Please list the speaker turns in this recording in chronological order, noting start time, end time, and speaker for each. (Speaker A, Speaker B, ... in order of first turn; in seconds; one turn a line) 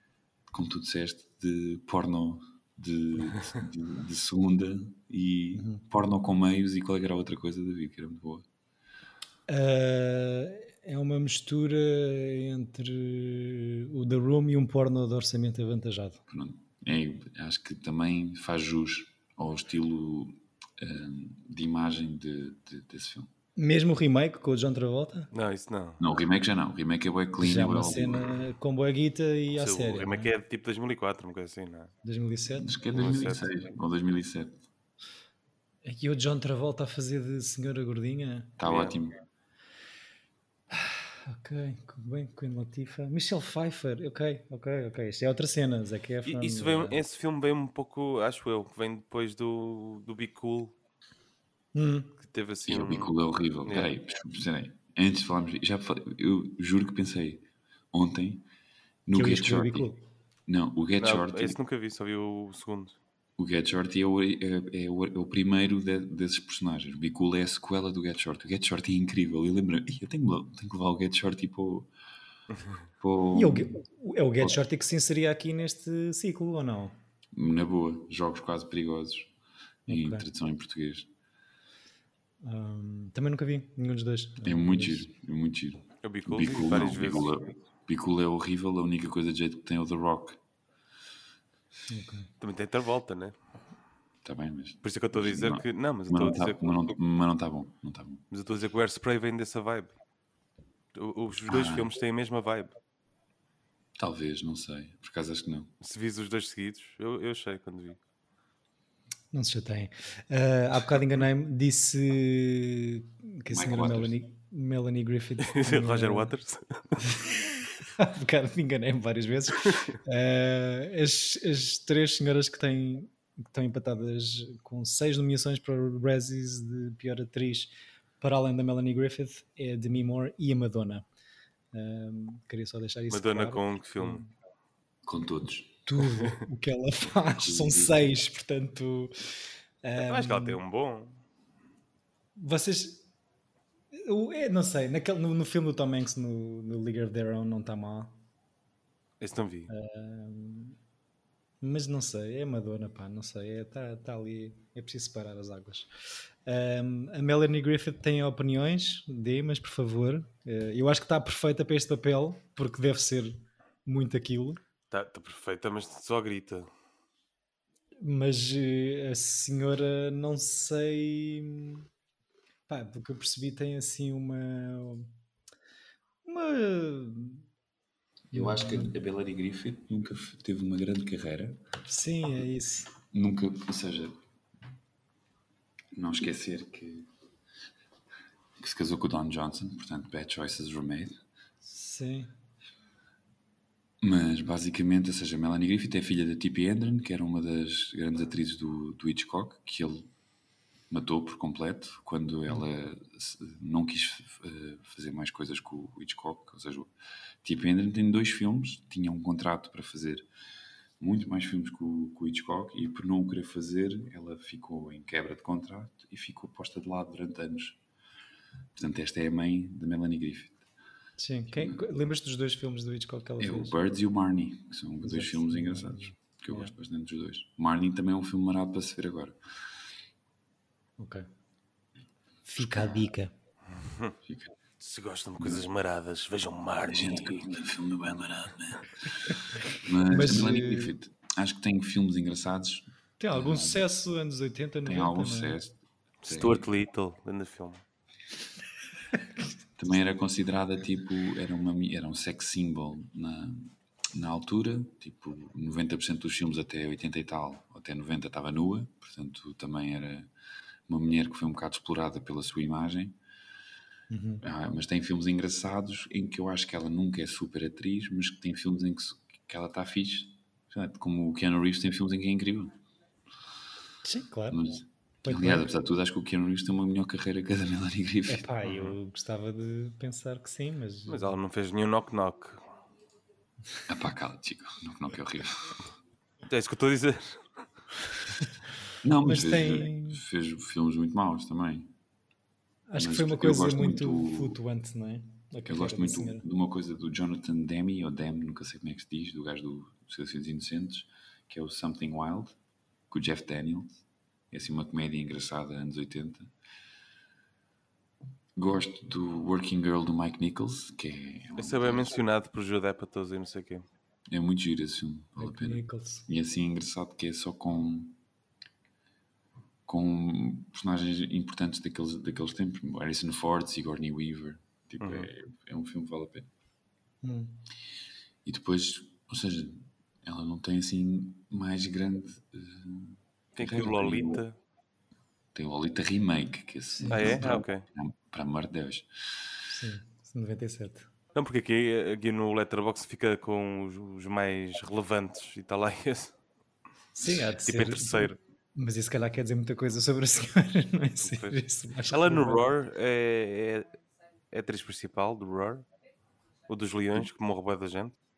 Speaker A: 0.5-8.4
Speaker B: 5.5-5.8
Speaker B: 9.5-16.2
Speaker A: 16.3-23.3
Speaker B: 23.6-25.3
Speaker C: 25.3-26.0
Speaker A: 26.0-28.4
Speaker B: 27.4-30.3
Speaker C: 29.6-31.9
Speaker B: 32.0-32.8
Speaker A: 32.5-34.6
Speaker C: 32.9-33.5
Speaker B: 35.9-38.6
Speaker A: 38.6-39.2
Speaker C: 38.6-39.0
Speaker B: 40.7-47.0
Speaker C: 46.3-50.8
Speaker B: 51.8-52.1
Speaker C: 52.2-53.1
Speaker A: 52.7-58.5
Speaker C: 53.7-53.9
Speaker A: 59.1-59.9
Speaker B: 59.1-60.0
Speaker A: 60.5-61.6
Speaker C: 61.0-63.0
Speaker A: 63.4-71.9
Speaker A: 73.0-73.8
Speaker B: 73.3-77.0
Speaker A: 77.3-79.3
Speaker A: 79.9-81.1
Speaker B: 79.9-80.2
Speaker B: 82.4-85.1
Speaker A: 84.4-90.4
Speaker C: 86.0-87.3
Speaker B: 91.9-92.3
Speaker C: 92.4-93.4
Speaker A: 94.2-98.2
Speaker C: 94.8-96.9
Speaker C: 98.3-99.9
Speaker C: 101.0-102.7
Speaker A: 101.5-101.9
Speaker A: 104.0-105.7
Speaker C: 105.8-108.0
Speaker B: 109.3-116.3
Speaker A: 113.5-114.2
Speaker C: 115.4-117.0
Speaker B: 117.0-131.1
Speaker B: 131.7-134.3
Speaker C: 133.1-134.2
Speaker A: 135.1-135.8
Speaker B: 135.9-140.6
Speaker A: 137.4-138.0
Speaker C: 140.0-141.2
Speaker B: 142.4-143.1
Speaker B: 143.9-148.2
Speaker C: 149.2-149.7
Speaker B: 149.7-150.8
Speaker B: 151.6-155.9
Speaker B: 156.5-164.6
Speaker C: 164.9-166.7
Speaker B: 168.0-171.8
Speaker B: 172.7-175.1
Speaker B: 176.2-177.4
Speaker A: 178.3-181.6
Speaker B: 178.3-178.9
Speaker B: 181.9-182.9
Speaker A: 183.1-184.2
Speaker A: 185.9-187.1
Speaker A: 188.6-191.2
Speaker B: 191.6-192.3
Speaker A: 194.0-200.1
Speaker A: 200.9-206.9
Speaker A: 207.4-210.3
Speaker A: 211.0-217.8
Speaker A: 218.8-220.6
Speaker B: 221.2-223.7
Speaker A: 221.5-221.8
Speaker A: 223.4-229.4
Speaker B: 225.0-226.7
Speaker B: 231.0-231.3
Speaker B: 232.5-233.3
Speaker C: 233.8-234.1
Speaker A: 234.3-234.5
Speaker C: 234.8-237.5
Speaker A: 236.9-243.8
Speaker B: 240.1-240.9
Speaker B: 243.2-245.6
Speaker A: 244.8-246.7
Speaker C: 246.2-247.8
Speaker A: 249.8-260.3
Speaker A: 260.9-263.2
Speaker B: 264.1-264.4
Speaker A: 264.4-272.8
Speaker B: 274.0-274.6
Speaker A: 274.5-278.5
Speaker B: 275.2-275.7
Speaker B: 278.3-281.3
Speaker C: 278.7-278.9
Speaker C: 281.1-282.6
Speaker A: 283.9-285.8
Speaker C: 286.5-287.5
Speaker A: 289.0-291.9
Speaker B: 289.2-290.2
Speaker B: 292.9-296.4
Speaker A: 293.0-294.6
Speaker A: 295.7-302.6
Speaker A: 303.1-306.5
Speaker A: 308.6-312.2
Speaker C: 311.6-313.9
Speaker A: 314.3-318.2
Speaker B: 315.4-316.2
Speaker A: 319.9-326.5
Speaker C: 325.0-325.3
Speaker B: 327.2-327.6
Speaker A: 328.4-334.4
Speaker C: 333.6-334.6
Speaker A: 335.5-339.1
Speaker B: 336.9-337.4
Speaker C: 337.1-337.9
Speaker B: 339.7-341.1
Speaker C: 341.4-346.4
Speaker B: 347.1-352.6
Speaker C: 347.3-348.4
Speaker C: 351.2-354.0
Speaker C: 354.5-355.9
Speaker C: 356.7-358.2